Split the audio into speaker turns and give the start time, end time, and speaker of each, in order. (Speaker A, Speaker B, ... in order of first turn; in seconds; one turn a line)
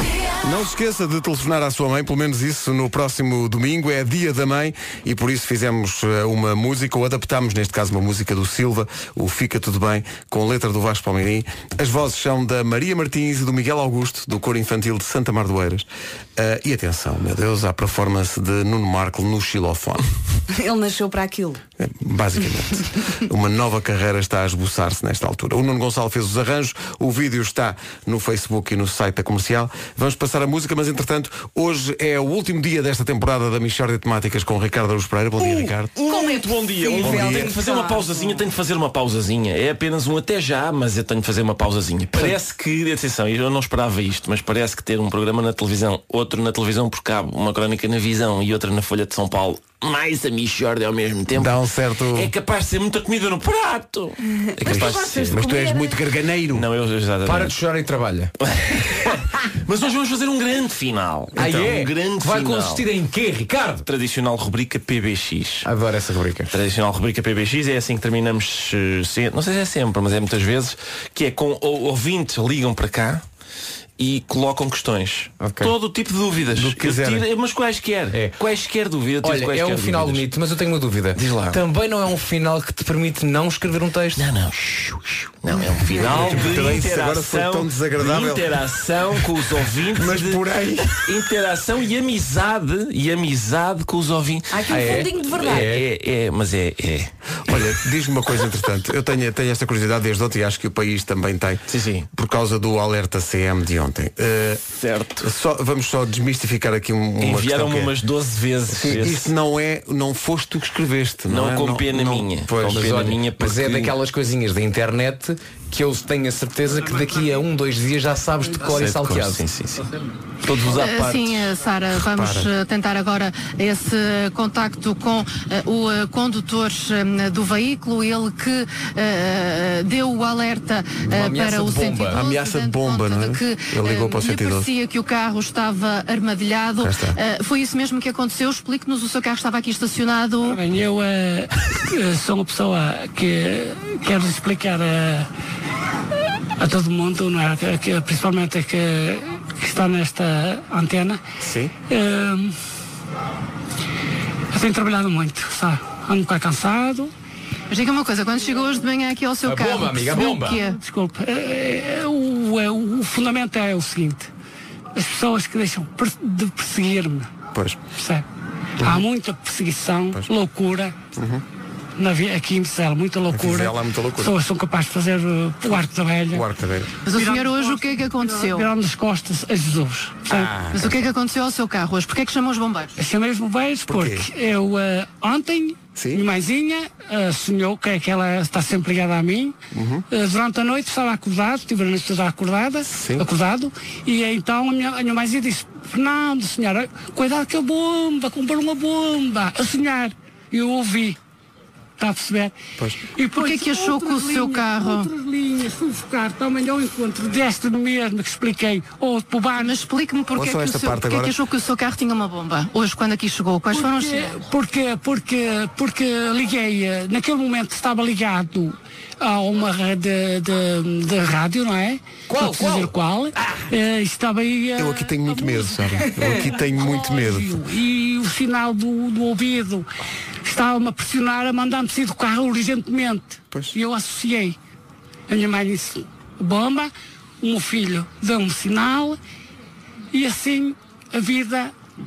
Speaker A: 0.4-20.1
Speaker B: 20.5-21.6
Speaker A: 21.8-36.0
Speaker B: 35.5-38.4
Speaker C: 36.1-51.6
Speaker A: 37.0-37.5
Speaker A: 51.3-52.3
Speaker C: 52.1-55.5
Speaker A: 54.7-56.7
Speaker B: 54.7-56.0
Speaker C: 56.5-57.5
Speaker D: 57.2-58.3
Speaker C: 58.5-62.8
Speaker D: 61.4-63.9
Speaker C: 63.9-65.7
Speaker D: 65.6-66.5
Speaker C: 66.5-73.2
Speaker C: 74.0-80.2
Speaker D: 75.4-75.7
Speaker A: 76.5-77.2
Speaker D: 79.2-84.2
Speaker C: 81.2-81.6
Speaker C: 84.2-97.1
Speaker A: 85.9-88.5
Speaker A: 89.9-91.0
Speaker B: 94.5-95.7
Speaker D: 94.7-95.8
Speaker A: 97.5-101.6
Speaker C: 101.7-102.1
Speaker A: 102.1-104.6
Speaker C: 104.8-105.3
Speaker A: 105.2-108.0
Speaker C: 107.2-109.3
Speaker A: 108.7-112.8
Speaker C: 111.3-113.9
Speaker D: 112.6-119.4
Speaker C: 118.6-119.8
Speaker C: 120.4-121.4
Speaker E: 120.6-140.6
Speaker A: 122.1-122.5
Speaker D: 131.1-132.2
Speaker A: 132.1-134.7
Speaker A: 136.8-137.2
Speaker F: 140.4-145.3
Speaker F: 146.6-151.2
Speaker A: 151.4-151.7
Speaker F: 151.9-152.6
Speaker F: 154.5-157.1
Speaker E: 157.7-160.8
Speaker D: 159.4-160.6
Speaker F: 160.6-164.3
Speaker F: 165.0-167.3
Speaker A: 167.5-167.8
Speaker F: 168.0-168.3
Speaker A: 168.8-169.0
Speaker F: 168.8-171.0
Speaker A: 171.2-171.4
Speaker F: 172.0-176.5
Speaker A: 173.3-174.3
Speaker A: 176.3-176.9
Speaker E: 177.1-178.7
Speaker F: 177.1-180.5
Speaker A: 180.3-181.1
Speaker E: 180.7-182.9
Speaker F: 183.0-189.6
Speaker A: 183.9-184.3
Speaker A: 186.0-186.3
Speaker A: 189.7-190.1
Speaker F: 190.1-201.2
Speaker A: 192.9-193.3
Speaker F: 202.0-202.6
Speaker F: 203.2-209.8
Speaker E: 203.3-205.1
Speaker E: 209.6-214.4
Speaker A: 210.3-211.4
Speaker F: 213.7-229.9
Speaker D: 222.3-222.9
Speaker A: 224.8-227.6
Speaker F: 230.4-234.6
Speaker F: 235.3-239.2
Speaker F: 240.1-241.7